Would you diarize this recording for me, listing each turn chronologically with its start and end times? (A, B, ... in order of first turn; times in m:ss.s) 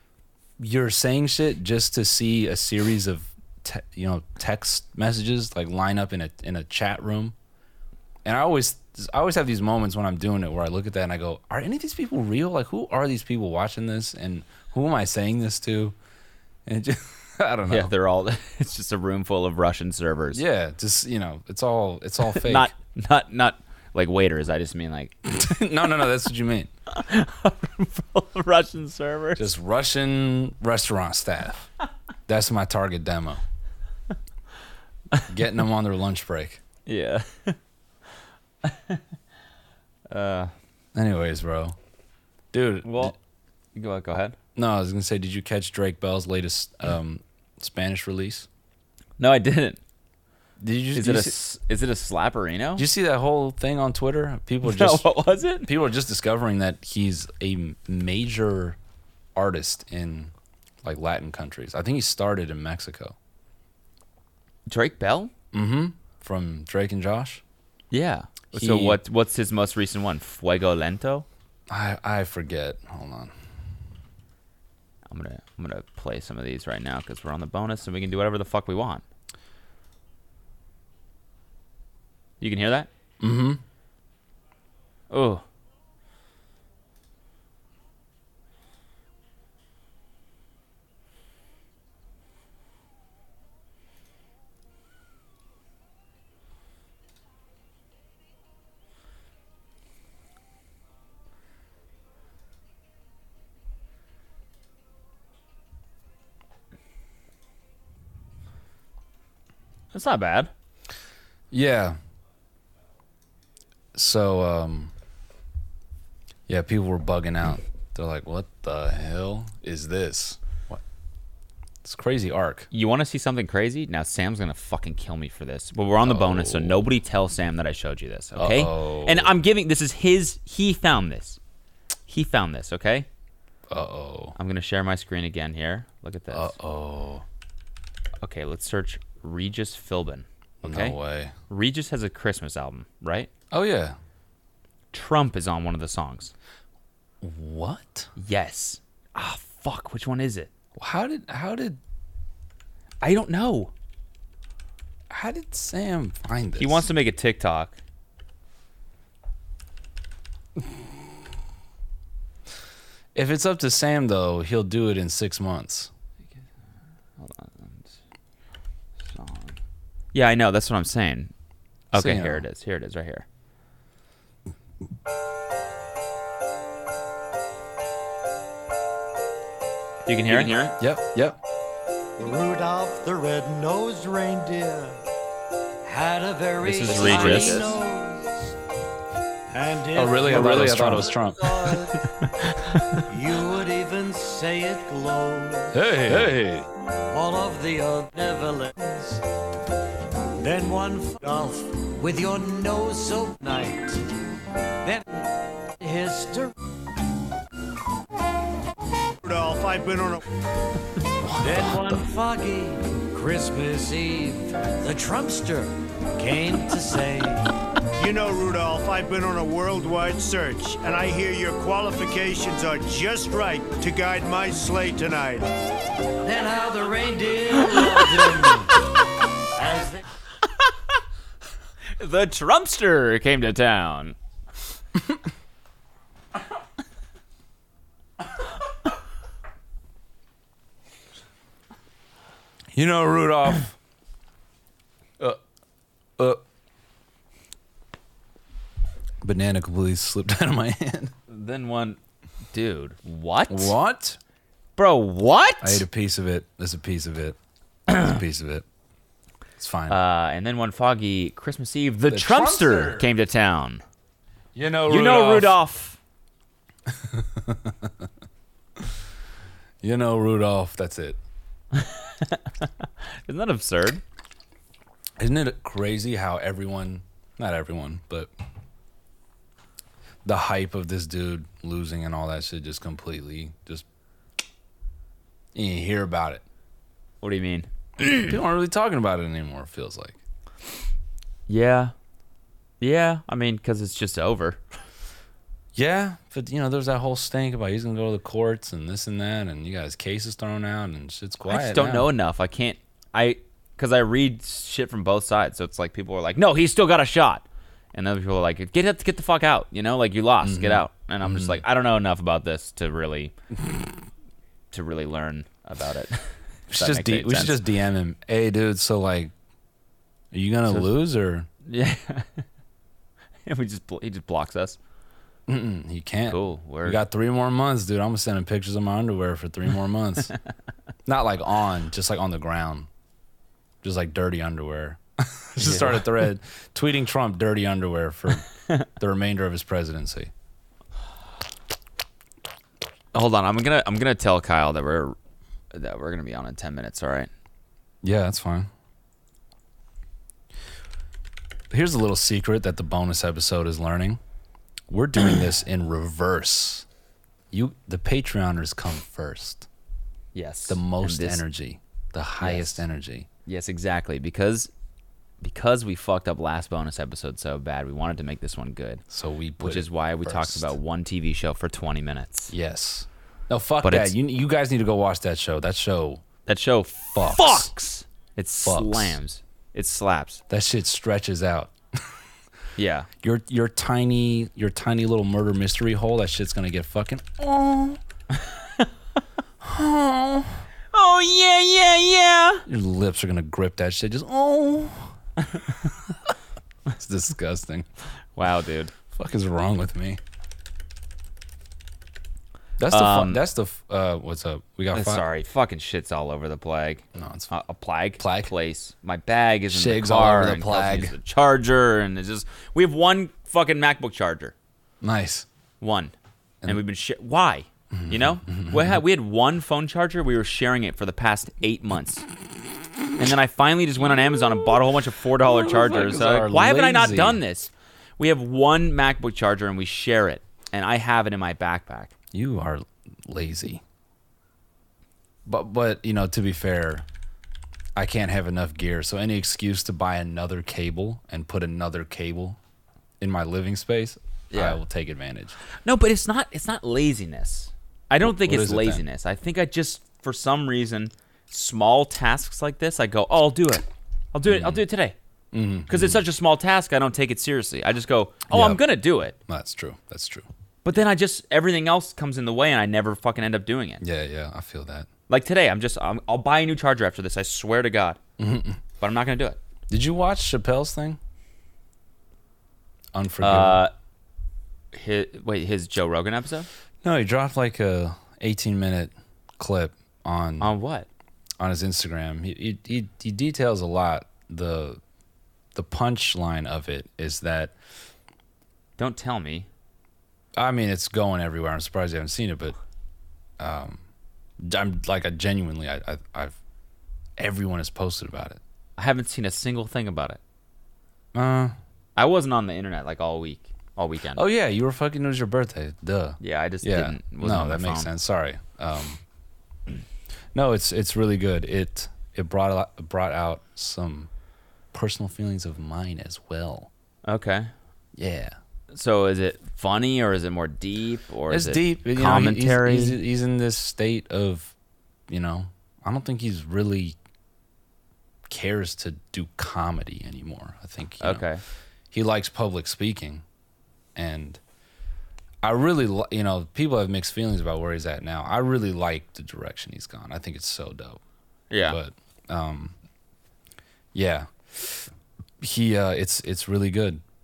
0:00.6-0:07.4 A
0:08.2-0:16.0 A
0:16.7-0:17.9 A
0:17.7-0:20.4 B
0:20.3-0:22.7 A
0:22.3-0:25.2 B
0:25.2-0:26.7 A
0:26.9-0:29.5 B
0:29.4-0:31.7 A
0:32.3-0:33.4 A
0:35.3-0:36.6 A
0:36.9-0:37.6 B
0:38.6-0:39.0 B
0:40.1-0:40.5 B
0:40.9-0:41.8 A
0:42.5-0:43.2 A
0:42.8-0:43.2 B
0:43.8-0:44.4 B
0:44.6-0:48.5 A
0:49.2-0:49.8 B
0:50.6-0:51.4 A
0:51.0-0:52.9 B
0:52.8-0:55.1 A
0:54.6-0:55.7 B
0:55.6-0:58.8 A
0:59.4-1:00.3 A
1:00.8-1:03.2 A
1:04.7-1:05.3 B
1:05.5-1:07.4 A
1:07.9-1:11.3 B
1:08.5-1:09.0 A
1:11.7-1:13.3 A
1:15.1-1:19.0 B
1:22.4-1:22.9 B
1:23.2-1:23.6 A
1:25.1-1:25.4 B
1:49.9-1:50.5 B
1:51.5-1:52.0 A
1:53.9-1:54.9 A
1:56.5-2:00.8 A
2:01.8-2:02.7 A
2:02.7-2:11.4 B
2:06.0-2:06.9 A
2:08.4-2:09.4 A
2:12.1-2:13.1 B
2:13.7-2:14.4 A
2:14.4-2:16.6 B
2:16.3-2:17.2 A
2:18.2-2:21.0 B
2:20.6-2:21.3 A
2:21.5-2:23.3 B
2:23.5-2:24.0 A
2:24.9-2:26.3 B
2:27.2-2:28.1 A
2:28.2-2:30.5 B
2:30.8-2:31.8 A
2:33.0-2:33.7 B
2:35.1-2:36.9 A
2:36.6-2:37.8 B
2:43.1-2:45.9 A
2:47.2-2:48.0 B
2:49.0-2:49.6 B
2:50.1-2:51.3 B
2:51.9-2:52.4 A
2:51.9-2:53.2 B
3:00.1-3:00.8 B
3:00.3-3:01.4 A
3:02.2-3:05.0 C
3:05.8-3:08.6 C
3:06.6-3:07.8 B
3:07.2-3:07.5 A
3:09.5-3:12.1 C
3:09.9-3:11.6 A
3:12.2-3:13.0 B
3:13.1-3:15.8 C
3:15.7-3:16.7 A
3:17.1-3:19.2 C
3:20.4-3:24.0 C
3:24.8-3:25.2 C
3:25.8-3:26.5 C
3:29.2-3:30.2 D
3:31.2-3:32.1 A
3:31.4-3:37.5 C
3:38.0-3:45.5 D
3:46.2-3:48.9 C
3:49.6-3:50.0 C
3:52.0-3:54.2 B
4:02.7-4:03.7 A
4:09.2-4:11.1 A
4:11.3-4:12.0 B
4:12.5-4:13.8 B
4:13.5-4:14.2 A
4:14.8-4:15.9 B
4:15.6-4:17.4 A
4:17.9-4:18.6 A
4:19.6-4:20.0 A
4:19.9-4:23.8 B
4:22.1-4:23.1 A
4:24.6-4:25.6 A
4:24.9-4:26.0 B
4:26.9-4:28.1 A
4:29.8-4:31.2 A
4:31.7-4:34.0 B
4:35.2-4:38.3 A
4:40.2-4:43.9 A
4:45.6-4:46.4 A
4:47.2-4:48.4 B
4:48.2-4:50.2 A
4:51.5-4:51.9 B
4:52.8-4:54.6 B
4:55.8-5:02.1 A
5:01.4-5:13.3 B
5:10.4-5:11.6 A
5:14.7-5:17.6 B
5:16.7-5:19.3 A
5:20.3-5:21.5 A
5:20.7-5:20.9 B
5:21.6-5:22.4 B
5:23.5-5:24.8 B
5:25.5-5:30.3 A
5:26.3-5:27.0 B
5:31.1-5:32.9 A
5:33.8-5:40.3 A
5:35.6-5:36.2 B
5:43.1-5:45.2 B
5:45.7-5:47.3 B
5:48.0-5:48.7 A
5:51.7-5:54.2 A
5:54.9-5:56.9 A
5:57.5-5:59.7 A
6:00.3-6:01.4 B
6:00.7-6:03.3 A
6:02.4-6:02.8 B
6:03.5-6:04.7 B
6:05.4-6:09.0 B
6:09.1-6:10.7 A
6:09.6-6:12.5 B
6:12.5-6:16.2 A
6:13.8-6:14.2 B
6:16.5-6:20.4 B
6:17.1-6:17.7 A
6:18.6-6:19.2 A
6:20.5-6:22.2 A
6:22.8-6:23.1 B
6:23.2-6:28.0 A
6:29.6-6:30.7 A
6:30.9-6:32.6 B
6:32.7-6:35.1 A
6:36.9-6:37.9 A
6:38.4-6:38.9 B
6:39.1-6:40.2 A
6:42.8-6:45.2 A
6:42.9-6:43.4 B
6:44.9-6:54.5 B
6:47.1-6:47.5 A
6:48.2-6:48.5 A
6:49.7-6:51.2 A
6:55.0-6:55.5 A
6:55.8-6:56.1 B
6:56.7-7:02.2 B
6:57.9-6:59.0 A
7:03.2-7:12.1 B
7:05.4-7:07.4 A
7:12.3-7:13.8 A
7:15.4-7:17.1 A
7:18.0-7:22.6 A
7:23.2-7:25.6 A
7:24.5-7:24.8 B
7:25.8-7:35.2 B
7:28.2-7:29.0 A
7:34.5-7:34.8 A
7:35.5-7:36.2 A
7:35.9-7:39.4 B
7:38.5-7:38.8 A
7:39.4-7:40.5 A
7:40.8-7:44.0 B
7:44.0-7:45.1 A
7:45.3-7:48.2 B
7:48.4-7:48.8 A
7:49.0-7:49.6 B
7:49.9-7:51.2 A
7:53.1-7:53.8 A
7:53.4-7:53.9 B
7:54.9-7:56.7 B
7:57.0-8:00.7 A
8:00.6-8:01.1 B
8:01.6-8:05.0 A
8:05.8-8:07.8 A
8:09.0-8:09.7 B
8:10.6-8:12.8 A
8:13.6-8:14.0 A
8:14.6-8:16.6 A
8:17.4-8:18.6 A
8:19.0-8:20.4 B
8:21.3-8:21.8 A
8:22.2-8:24.4 B
8:24.3-8:29.2 A
8:26.4-8:28.1 B
8:30.5-8:34.3 A
8:34.9-8:36.9 A
8:37.3-8:37.7 B
8:38.2-8:38.6 A
8:38.9-8:43.2 B
8:41.5-8:44.7 A
8:45.3-8:47.2 A
8:48.5-8:51.4 A
8:51.2-8:51.6 B
8:52.1-8:53.4 A
8:54.2-8:54.6 A
8:55.6-9:01.2 A
9:01.7-9:02.0 B
9:01.8-9:03.0 A
9:04.1-9:05.1 A
9:05.6-9:07.2 A